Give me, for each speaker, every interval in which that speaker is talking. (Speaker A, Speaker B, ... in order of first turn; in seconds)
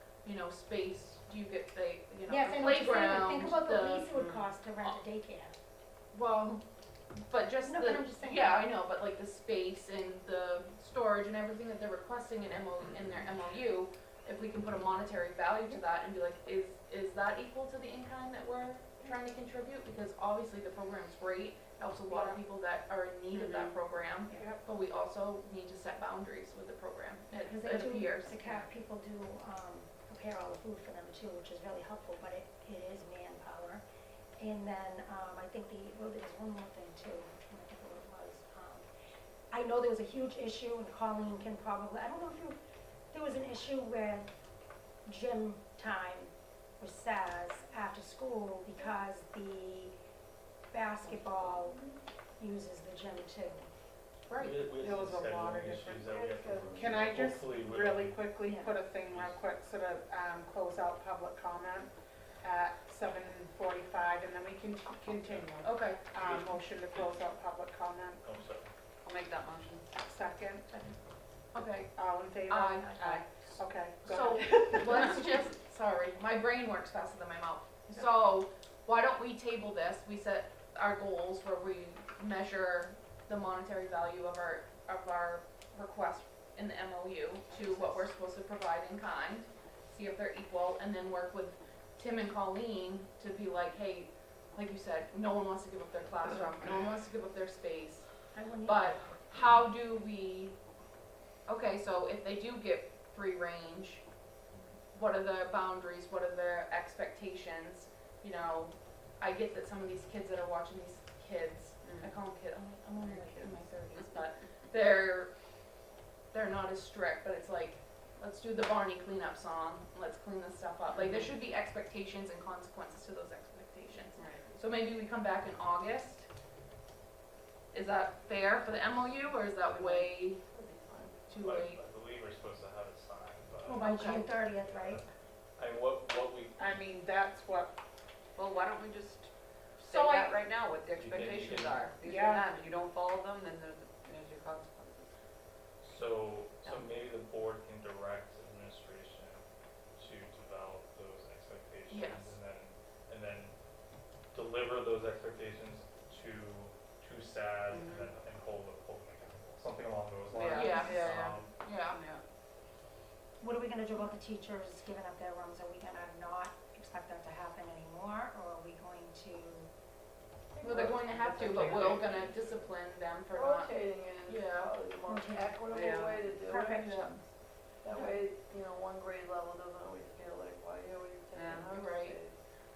Speaker A: 0.2-4.2, 6.1-6.6, 7.3-28.6, 54.3-54.5, 65.6-66.0, 71.5-73.2, 74.0-98.1, 98.6-100.6, 101.5-104.0, 104.9-115.3, 116.3-126.3, 127.7-130.4, 131.3-131.8, 133.7-134.3, 139.8-140.4, 151.9-152.4, 160.5-161.0, 161.6-162.0, 170.6-174.7, 181.7-182.2
Speaker B: 2.3-5.6, 7.6-8.7, 27.3-33.8, 34.4-38.9, 39.5-42.6, 43.1-44.3, 45.1-50.0, 50.7-51.8, 52.4-53.7, 58.4-58.8, 98.3-99.6, 133.7-135.0, 163.4-169.7, 175.0-175.7, 176.3-177.3
Speaker C: 4.1-4.5, 23.3-23.8, 69.0-69.9, 87.5-88.0, 111.8-112.2, 113.0-114.2, 120.9-121.3, 124.2-124.5, 129.7-131.2, 138.3-145.1, 146.7-146.9, 157.7-158.1, 160.3-162.2, 175.7-176.3, 181.3-181.7
Speaker D: 22.1-22.4, 24.3-24.6, 54.8-56.1, 56.7-68.2, 70.0-70.9, 72.0-75.1, 136.6-137.7, 142.0-142.5
Speaker E: 54.3-58.2, 59.1-59.4, 65.3-65.5, 66.1-67.3, 68.2-68.7, 131.4-136.8, 140.9-141.9, 145.8-149.4, 150.0-153.5, 154.3-161.6, 170.8-172.7
Speaker F: 56.1-56.9, 170.5-172.1, 173.3-177.2, 177.8-182.4